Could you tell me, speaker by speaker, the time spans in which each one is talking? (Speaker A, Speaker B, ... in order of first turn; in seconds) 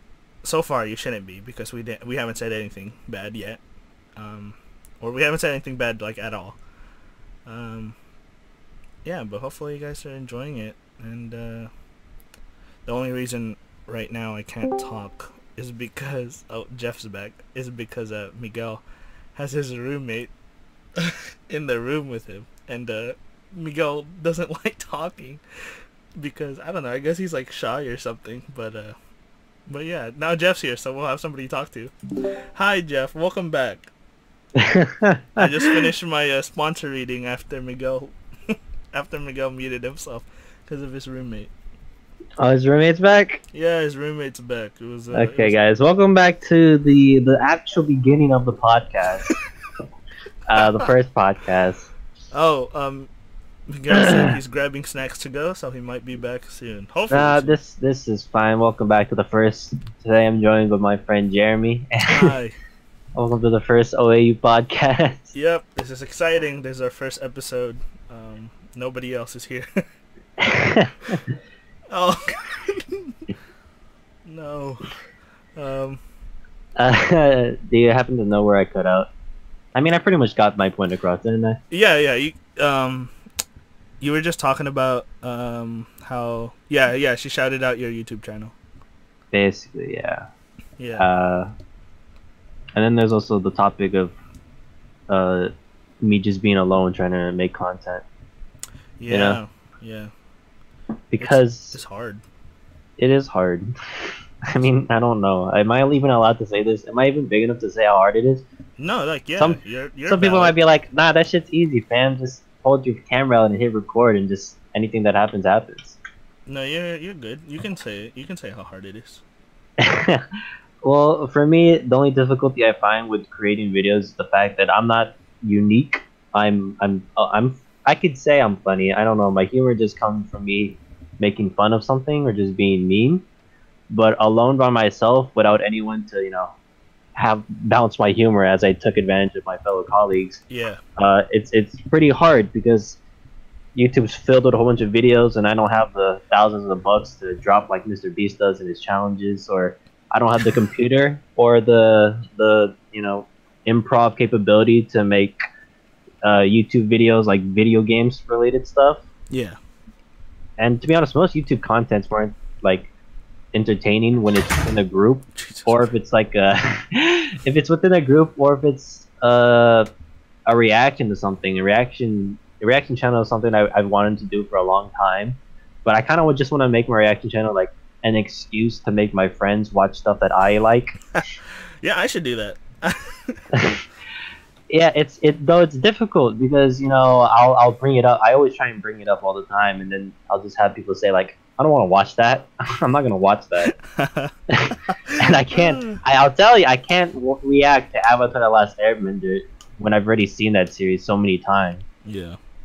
Speaker A: 0.4-3.6, 4.2-6.6, 7.5-8.0, 9.0-11.7, 12.9-18.8, 19.4-20.3, 21.0-25.4, 26.2-28.9, 29.7-31.9, 32.5-33.9, 35.4-41.5, 43.5-45.6, 50.6-50.9, 52.3-53.1, 53.7-57.5, 62.1-62.5, 65.3-69.8, 71.9-73.2, 74.2-74.9, 75.6-76.0, 81.7-83.1, 84.0-88.5, 90.8-91.1, 99.0-100.1, 101.2-102.2, 108.8-110.6, 116.5-119.2, 140.5-140.8, 159.3-159.6, 165.4-165.8, 181.8-183.4, 193.7-194.3, 194.9-196.0, 202.1-202.4
Speaker B: 34.6-35.8, 42.4-43.4, 45.1-49.3, 50.5-51.9, 57.1-62.3, 63.1-65.3, 70.4-71.2, 76.8-79.1, 79.8-81.6, 89.3-90.3, 91.0-91.5, 92.8-94.1, 95.1-98.0, 99.1-99.4, 101.1-101.8, 103.0-103.7, 104.5-108.4, 109.4-116.0, 119.8-120.2, 120.8-133.2, 133.9-136.5, 137.2-140.4, 141.0-143.0, 143.8-155.4, 156.2-159.0, 160.6-162.9, 163.5-169.9, 170.5-181.0, 183.5-183.8, 184.7-193.7, 194.5-201.8